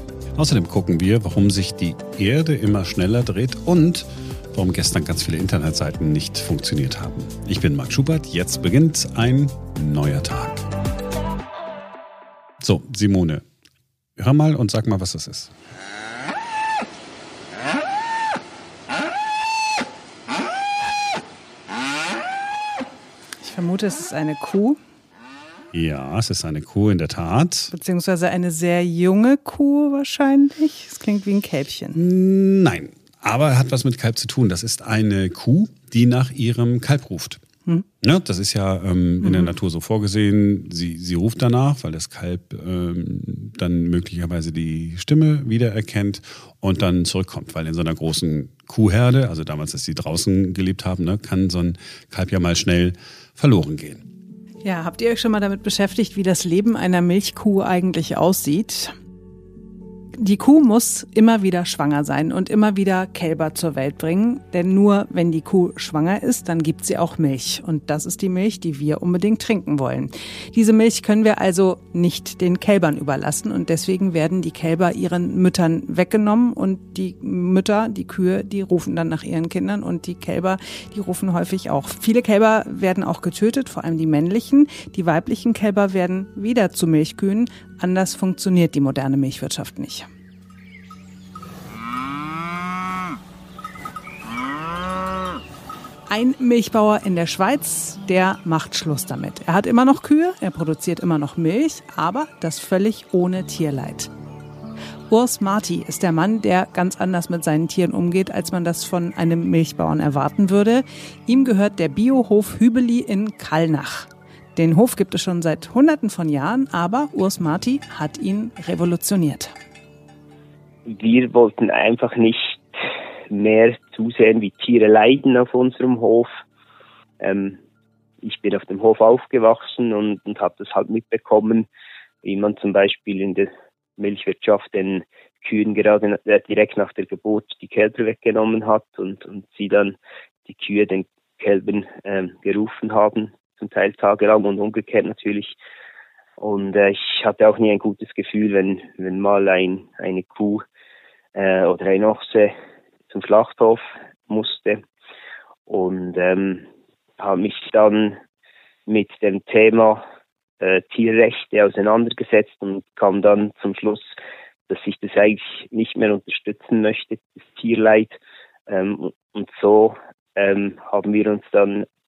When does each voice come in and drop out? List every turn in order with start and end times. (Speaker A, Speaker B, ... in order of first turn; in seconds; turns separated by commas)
Speaker A: 0.4-10.7, Speaker A: 12.6-13.4, Speaker A: 14.2-15.5, Speaker B: 23.4-24.8, Speaker A: 25.7-27.7, Speaker B: 27.7-32.0, Speaker A: 31.9-37.4, Speaker A: 38.0-54.0, Speaker B: 39.2-39.5, Speaker B: 54.6-58.9, Speaker B: 60.2-90.1, Speaker B: 96.1-104.1, Speaker B: 105.1-119.5, Speaker C: 120.9-126.4, Speaker C: 127.2-127.6, Speaker C: 128.2-131.7, Speaker C: 132.2-145.6, Speaker C: 146.4-150.7, Speaker C: 151.3-152.5, Speaker C: 153.1-154.8, Speaker C: 155.7-156.7, Speaker C: 157.2-158.2, Speaker C: 158.9-160.0, Speaker C: 160.6-164.2, Speaker C: 164.7-168.2, Speaker C: 168.7-171.9